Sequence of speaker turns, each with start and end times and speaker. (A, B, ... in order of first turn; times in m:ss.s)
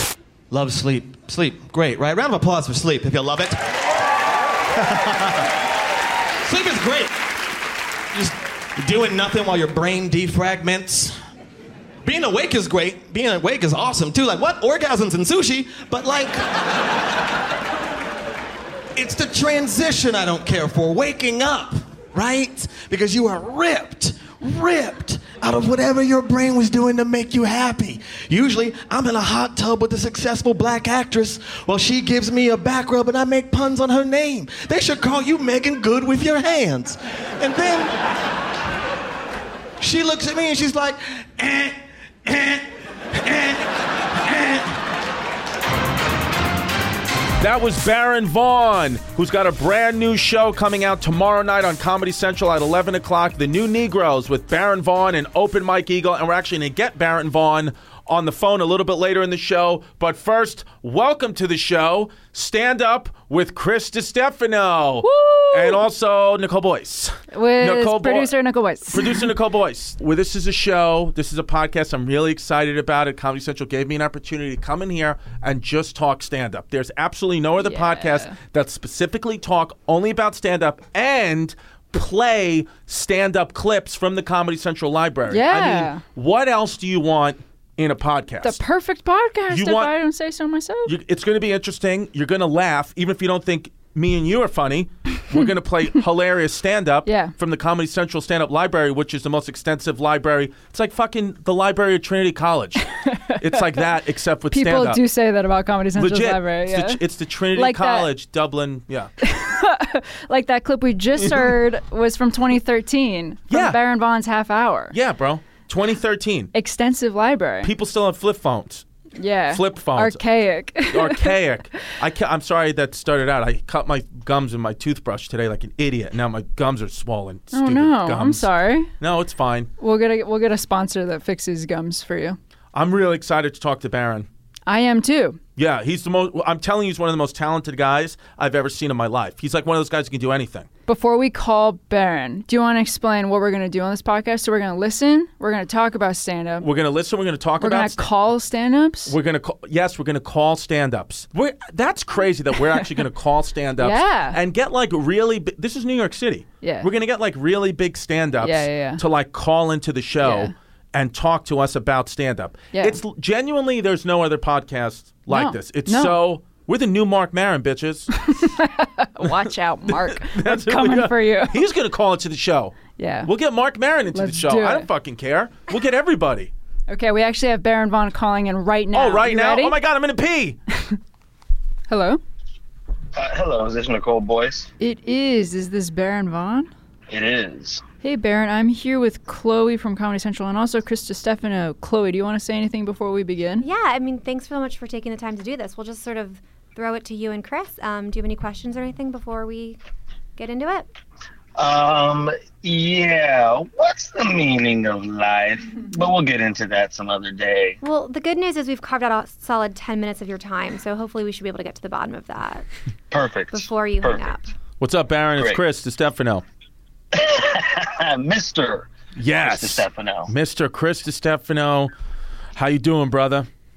0:00.5-0:03.6 A
0:04.8-0:05.5 A
0:06.4-0:07.1 A
0:08.1-0:11.2 A
0:12.0-0:16.5 A
0:19.0-0:38.0 A
0:39.8-0:44.8 A
0:47.4-1:08.3 B
1:05.0-1:05.8 C
1:07.3-1:09.3 C
1:08.9-1:28.6 B
1:17.6-1:18.4 C
1:25.3-1:26.0 C
1:28.4-1:30.9 C
1:29.5-1:29.9 B
1:30.9-1:45.0 B
1:37.1-1:37.3 C
1:43.0-1:43.5 C
1:44.5-1:47.0 C
1:46.0-1:49.1 B
1:47.5-1:48.1 C
1:49.2-1:55.0 C
1:51.2-1:51.5 B
1:53.5-1:53.8 B
1:54.9-1:56.5 B
1:56.5-1:57.7 C
1:57.6-1:58.8 B
1:59.2-2:01.4 C
1:59.5-2:00.2 B
2:00.9-2:09.7 B
2:07.5-2:08.9 C
2:09.8-2:12.4 C
2:12.7-2:14.3 B
2:14.7-2:15.4 C
2:15.6-2:20.7 B
2:20.9-2:26.7 C
2:26.6-2:28.0 B
2:27.6-2:29.2 C
2:29.1-2:48.1 B
2:33.8-2:34.4 C
2:36.6-2:36.9 C
2:38.4-2:39.0 C
2:40.2-2:40.5 C
2:42.7-2:43.0 C
2:45.3-2:46.2 C
2:48.3-2:51.6 C
2:49.2-2:56.5 B
2:53.0-2:53.3 C
2:54.1-2:54.9 C
2:56.9-2:59.8 C
2:58.9-3:00.6 B
3:01.9-3:02.2 C
3:03.2-3:04.7 D
3:04.8-3:06.7 C
3:07.1-3:07.8 D
3:08.0-3:13.7 C
3:13.6-3:19.8 E
3:20.4-3:20.9 E
3:21.6-3:27.8 D
3:27.8-3:32.7 E
3:33.1-3:34.4 D
3:33.5-3:34.4 E
3:34.8-3:36.4 B
3:37.1-3:40.3 D
3:39.2-3:41.9 B
3:42.6-3:43.5 B